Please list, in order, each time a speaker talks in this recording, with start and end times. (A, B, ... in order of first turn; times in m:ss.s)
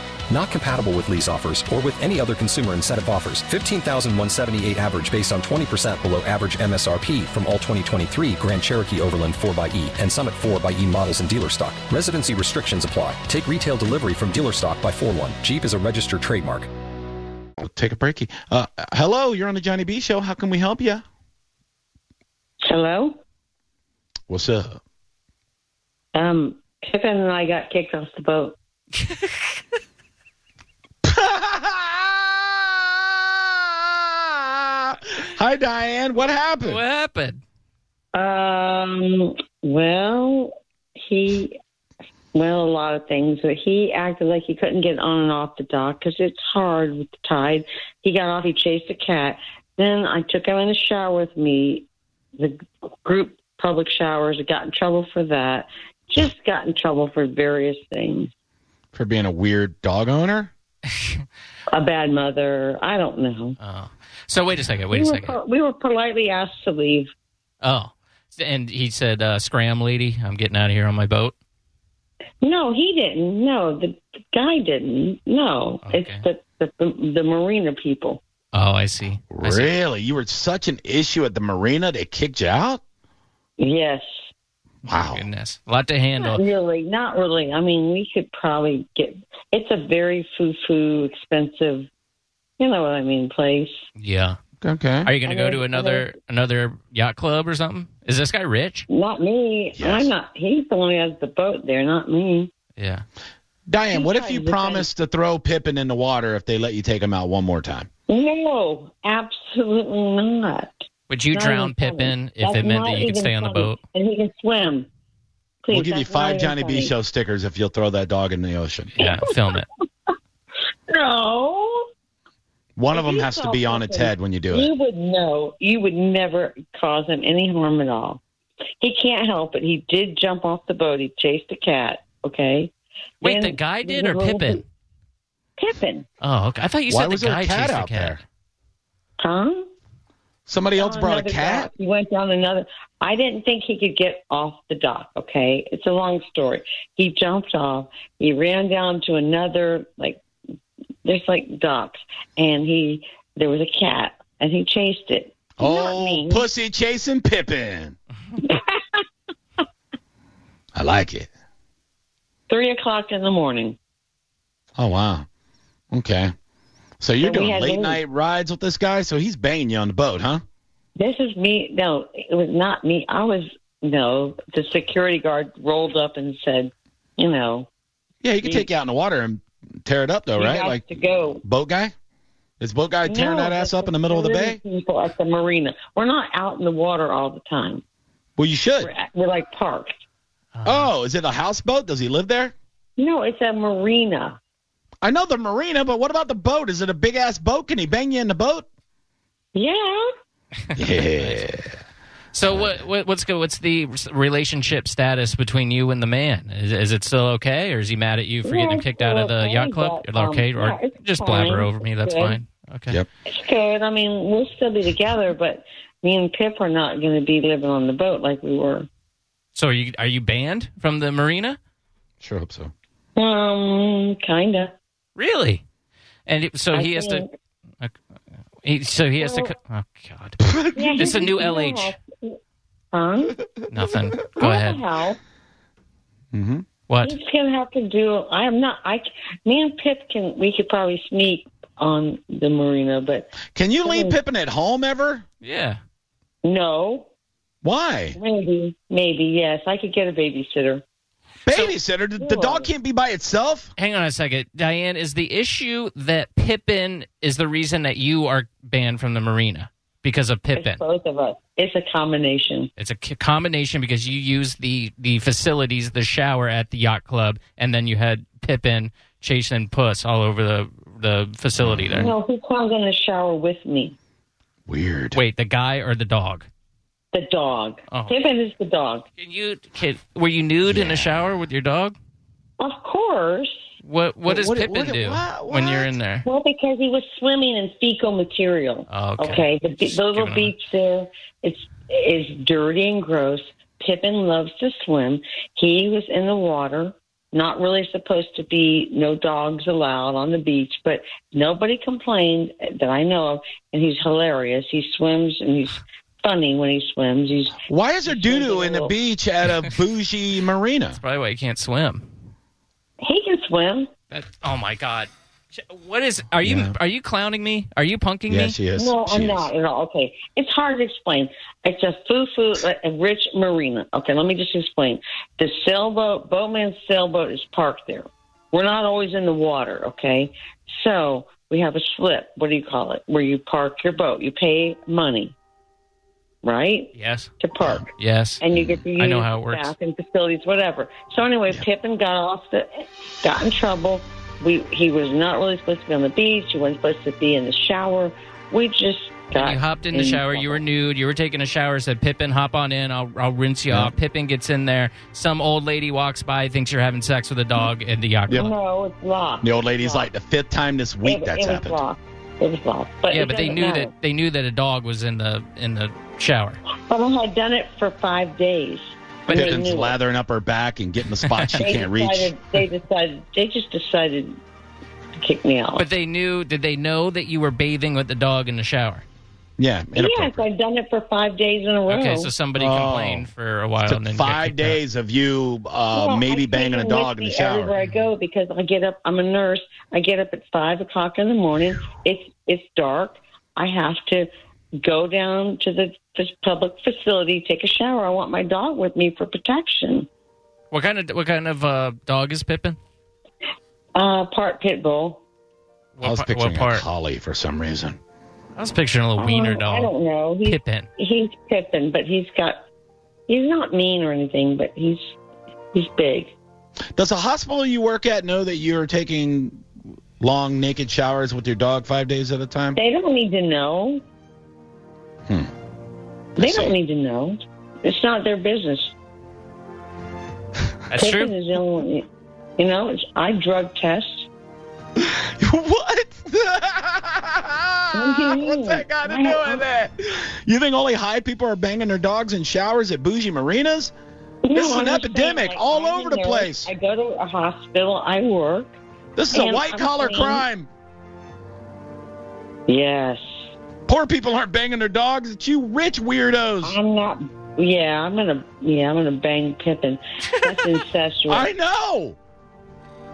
0:00.3-0:16.7 A
0:17.6-0:21.0 B
0:22.6-0:23.1 C
0:24.3-0:24.8 B
0:26.1-0:28.6 C
0:28.9-0:29.6 D
0:31.0-0:32.3 B
0:33.8-0:36.8 B
0:36.6-0:37.4 D
0:38.1-0:41.6 C
0:42.3-0:58.3 C
0:58.9-1:00.5 B
1:00.9-1:01.2 D
1:01.7-1:03.6 C
1:03.6-1:05.4 D
1:04.9-1:07.1 C
1:07.6-1:11.3 D
1:12.4-1:18.2 C
1:15.8-1:16.2 D
1:18.5-1:19.7 D
1:19.3-1:22.8 B
1:23.6-1:24.3 C
1:24.8-1:25.2 B
1:24.9-1:26.4 D
1:26.2-1:31.9 C
1:32.6-1:33.8 C
1:34.0-1:34.4 D
1:34.6-1:35.1 B
1:35.0-1:38.8 D
1:35.2-1:36.0 C
1:38.9-1:42.5 C
1:39.8-1:40.1 B
1:42.8-1:43.0 D
1:43.7-1:47.9 B
1:43.9-1:44.9 C
1:48.1-1:54.9 C
1:51.1-1:53.8 D
1:55.6-1:56.9 C
1:55.7-1:58.9 B
1:58.9-1:59.7 D
1:59.0-1:59.6 C
2:00.9-2:01.9 C
2:02.8-2:04.7 B
2:02.9-2:08.2 C
2:08.8-2:14.6 C
2:13.2-2:14.6 D
2:15.6-2:16.0 C
2:16.2-2:18.2 D
2:16.9-2:18.2 B
2:19.2-2:19.6 C
2:20.5-2:21.7 B
2:20.8-2:30.2 C
2:31.0-2:36.4 C
2:35.6-2:38.0 B
2:38.4-2:39.0 C
2:40.8-2:41.3 B
2:42.5-2:43.8 C
2:44.8-2:45.2 B
2:45.9-2:46.3 B
2:47.0-2:50.4 B
2:47.2-2:48.0 C
2:51.0-2:57.7 C
2:58.2-3:00.8 B
2:58.4-2:58.7 C
3:00.4-3:01.4 C
3:01.4-3:01.9 B
3:02.6-3:04.6 B
3:03.0-3:07.8 C
3:08.4-3:08.9 B
3:08.8-3:09.9 C
3:10.5-3:10.9 D
3:10.6-3:12.5 B
3:13.0-3:14.4 C
3:15.0-3:18.6 B
3:19.5-3:20.0 C
3:20.6-3:21.4 D
3:20.8-3:21.8 B
3:22.3-3:33.0 D
3:28.4-3:32.4 C
3:33.3-3:38.9 C
3:39.5-3:41.6 D
3:42.2-3:42.7 B
3:43.2-3:44.7 C
3:45.2-3:45.6 D
3:46.2-3:47.2 D
3:46.7-3:47.3 C
3:48.6-3:52.0 D
3:49.2-3:49.5 C
3:50.4-3:51.2 B
3:50.7-3:52.4 C
3:52.9-3:53.4 C
3:53.7-3:54.8 D
3:54.4-3:55.2 C
3:56.3-3:56.6 B
3:56.9-3:57.2 D
3:57.0-4:04.2 C
4:03.5-4:05.2 B
4:05.4-4:05.8 D
4:06.4-4:07.1 C
4:07.6-4:08.2 B
4:08.2-4:10.8 C
4:11.4-4:13.7 B
4:11.5-4:11.7 D
4:12.2-4:12.7 C
4:13.8-4:20.8 D
4:20.5-4:22.7 C
4:22.8-4:32.1 D
4:31.6-4:32.1 B
4:32.0-4:34.0 C
4:34.7-4:35.2 B
4:35.1-4:36.5 D
4:37.1-4:39.0 C
4:37.9-4:38.1 D
4:39.2-4:42.0 D
4:40.7-4:41.2 B
4:42.6-4:43.6 C
4:43.8-4:46.2 D
4:44.2-4:45.9 B
4:46.2-5:08.9 C
4:48.9-4:50.5 D
5:07.7-5:11.0 B
5:10.9-5:12.1 D
5:13.0-5:13.9 C
5:14.1-5:18.6 D
5:16.4-5:16.8 B
5:18.3-5:19.5 B
5:18.7-5:35.3 C
5:36.4-5:37.9 C
5:36.9-5:37.3 D
5:37.9-5:38.4 D
5:38.4-5:50.6 C
5:39.0-5:39.7 D
5:49.3-5:58.5 D
5:58.3-6:00.1 C
5:59.4-6:01.8 B
6:01.0-6:03.9 C
6:03.1-6:06.6 D
6:06.8-6:10.0 C
6:09.3-6:12.3 B
6:11.2-6:11.7 D
6:11.5-6:14.4 C
6:15.2-6:15.9 C
6:15.8-6:19.0 D
6:19.6-6:20.4 B
6:19.9-6:22.3 C
6:21.9-6:24.8 D
6:22.6-6:23.3 B
6:23.8-6:27.7 B
6:25.9-6:40.1 C
6:40.7-6:42.8 D
6:43.9-6:45.2 C
6:46.0-6:46.8 D
6:46.0-6:48.0 B
6:48.6-6:49.9 D
6:49.2-6:52.6 C
6:50.4-6:50.9 D
6:53.3-6:55.0 C
6:55.7-6:56.4 C
6:57.0-6:59.6 B
7:00.2-7:02.8 B
7:02.7-7:04.0 C
7:06.4-7:08.9 C
7:06.4-7:06.7 B
7:10.9-7:11.3 D
7:11.0-7:12.0 C
7:12.6-7:14.3 C
7:15.0-7:23.9 B
7:17.9-7:19.6 C
7:24.4-7:28.8 C
7:24.5-7:26.7 B
7:29.2-7:30.7 B
7:29.3-7:30.4 C
7:32.7-7:33.5 C
7:33.9-7:36.8 B
7:36.6-7:41.5 C
7:40.3-7:40.8 D
7:41.3-7:42.2 B